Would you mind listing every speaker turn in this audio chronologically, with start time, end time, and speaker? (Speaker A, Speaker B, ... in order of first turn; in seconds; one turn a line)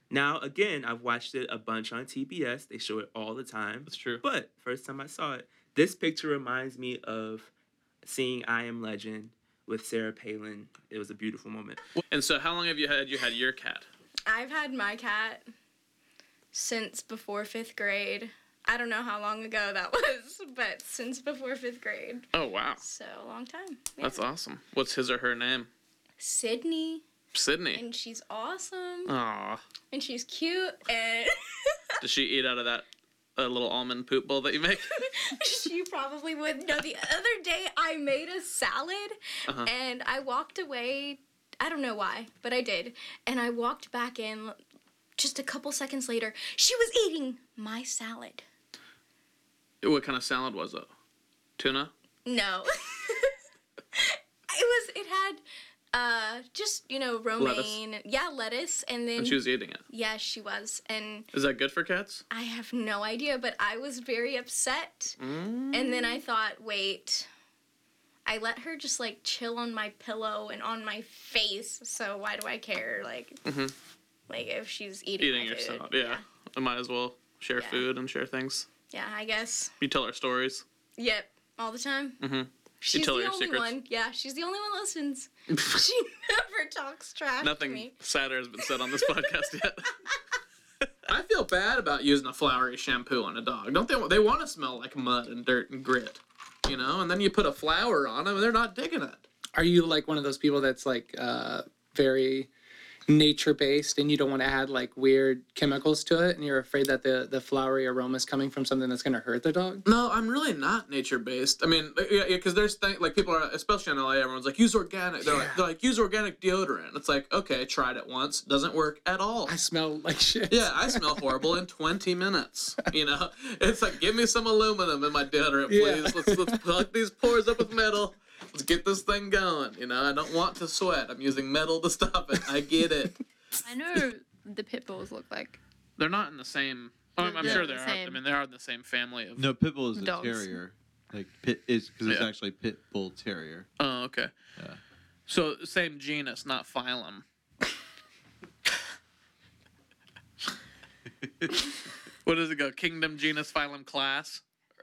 Speaker A: 0.1-7.5
Speaker B: 3.9-4.2
Speaker A: 8.0-11.8
Speaker B: 12.1-13.9
Speaker C: 14.3-15.5
Speaker C: 16.5-22.3
Speaker B: 22.3-22.8
Speaker C: 22.8-24.2
Speaker B: 24.0-25.7
Speaker C: 26.2-27.1
Speaker B: 27.3-27.8
Speaker C: 27.7-29.1
Speaker B: 29.1-29.6
Speaker C: 29.9-31.4
Speaker B: 32.0-32.9
Speaker B: 33.4-34.9
Speaker C: 35.1-44.6
Speaker C: 45.2-48.4
Speaker B: 49.8-50.9
Speaker B: 51.6-51.9
Speaker C: 52.3-53.3
Speaker C: 54.0-61.3
Speaker B: 57.4-57.8
Speaker B: 59.2-59.8
Speaker B: 61.3-62.2
Speaker C: 62.3-65.2
Speaker B: 65.2-66.2
Speaker C: 65.7-67.3
Speaker C: 68.3-73.4
Speaker B: 73.5-73.7
Speaker C: 74.3-76.2
Speaker B: 75.2-78.7
Speaker C: 77.6-77.9
Speaker C: 78.9-79.7
Speaker B: 79.8-80.7
Speaker C: 81.0-82.2
Speaker B: 82.2-83.8
Speaker C: 82.8-87.9
Speaker B: 85.5-85.8
Speaker B: 87.4-89.9
Speaker C: 88.9-89.2
Speaker B: 91.1-99.3
Speaker D: 99.5-102.5
Speaker D: 103.1-109.8
Speaker B: 109.8-119.6
Speaker D: 115.3-115.6
Speaker D: 119.5-121.2
Speaker B: 120.5-133.2
Speaker D: 125.7-126.6
Speaker E: 133.6-135.6
Speaker B: 136.0-139.5
Speaker E: 137.2-138.2
Speaker F: 139.4-143.7
Speaker E: 139.9-140.6
Speaker B: 143.8-144.3
Speaker B: 145.3-147.2
Speaker B: 152.2-154.4